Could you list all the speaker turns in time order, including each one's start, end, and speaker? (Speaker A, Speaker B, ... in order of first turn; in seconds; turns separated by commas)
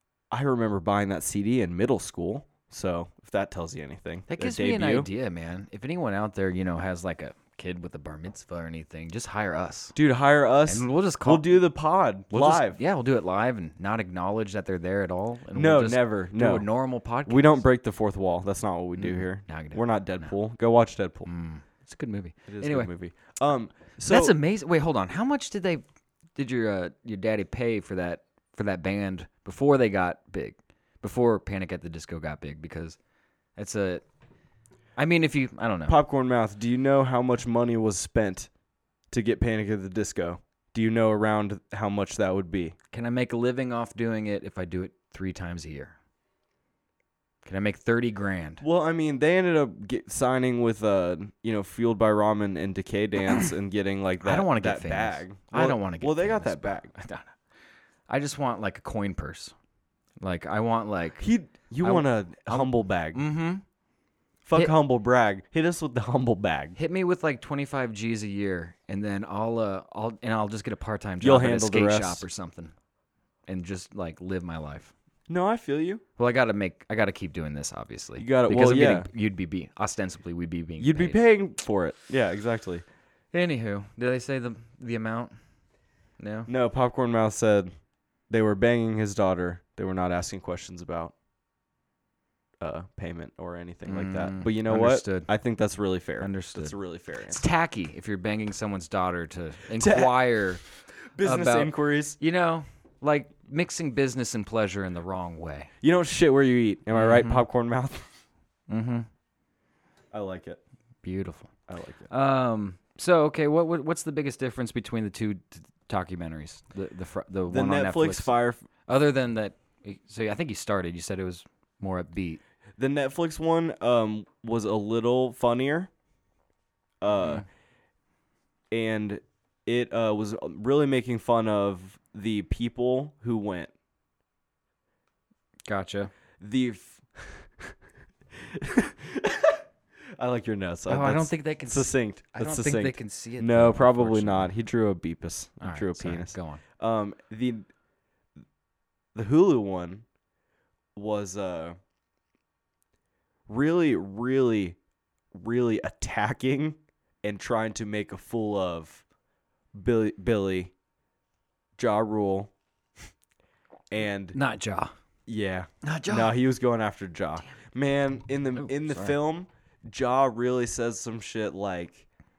Speaker A: 0.3-5.1, Speaker B: 4.3-9.9, Speaker A: 9.9-12.8, Speaker B: 10.7-11.6, Speaker B: 12.3-17.6, Speaker A: 15.5-16.7, Speaker A: 17.3-21.3, Speaker B: 19.0-20.3, Speaker B: 21.3-22.9, Speaker A: 22.5-24.4, Speaker B: 24.0-25.8, Speaker B: 26.4-33.0, Speaker B: 33.6-34.0, Speaker B: 35.0-36.0, Speaker A: 35.9-38.5, Speaker A: 39.1-42.8, Speaker B: 42.9-46.0, Speaker B: 47.5-48.6, Speaker A: 48.6-56.9, Speaker B: 54.2-57.3, Speaker B: 58.1-59.5, Speaker B: 60.2-61.2, Speaker A: 61.2-63.2, Speaker B: 61.8-63.6, Speaker A: 64.5-66.8, Speaker B: 66.8-72.7, Speaker A: 71.2-72.2, Speaker B: 73.5-74.9, Speaker A: 75.3-76.0, Speaker B: 76.2-81.2, Speaker A: 78.2-79.1, Speaker A: 80.8-82.8, Speaker B: 83.3-85.3, Speaker B: 86.2-86.5, Speaker A: 86.5-87.7, Speaker A: 88.3-91.1, Speaker A: 92.6-97.4, Speaker B: 93.8-95.3, Speaker B: 96.2-96.8, Speaker B: 97.3-100.6, Speaker A: 99.8-100.5, Speaker A: 101.2-102.2, Speaker B: 101.2-105.7, Speaker A: 105.8-108.1, Speaker B: 107.0-107.4, Speaker B: 108.7-109.1, Speaker A: 110.1-110.6, Speaker B: 111.0-111.5, Speaker A: 111.7-112.1, Speaker B: 112.1-118.3, Speaker A: 117.5-118.6, Speaker B: 118.9-122.4, Speaker A: 122.8-125.9, Speaker A: 127.0-127.5, Speaker A: 128.7-133.7, Speaker B: 135.7-136.1, Speaker A: 136.4-137.7, Speaker A: 138.3-139.6, Speaker A: 140.2-147.7, Speaker B: 140.9-144.5, Speaker B: 145.6-146.6, Speaker A: 149.2-150.1, Speaker A: 150.9-151.8, Speaker A: 153.5-154.8, Speaker A: 155.3-159.0, Speaker A: 159.7-160.7, Speaker A: 161.8-162.5, Speaker A: 163.9-164.4, Speaker B: 164.3-164.9, Speaker A: 165.3-172.1, Speaker B: 165.8-166.3, Speaker B: 168.6-169.2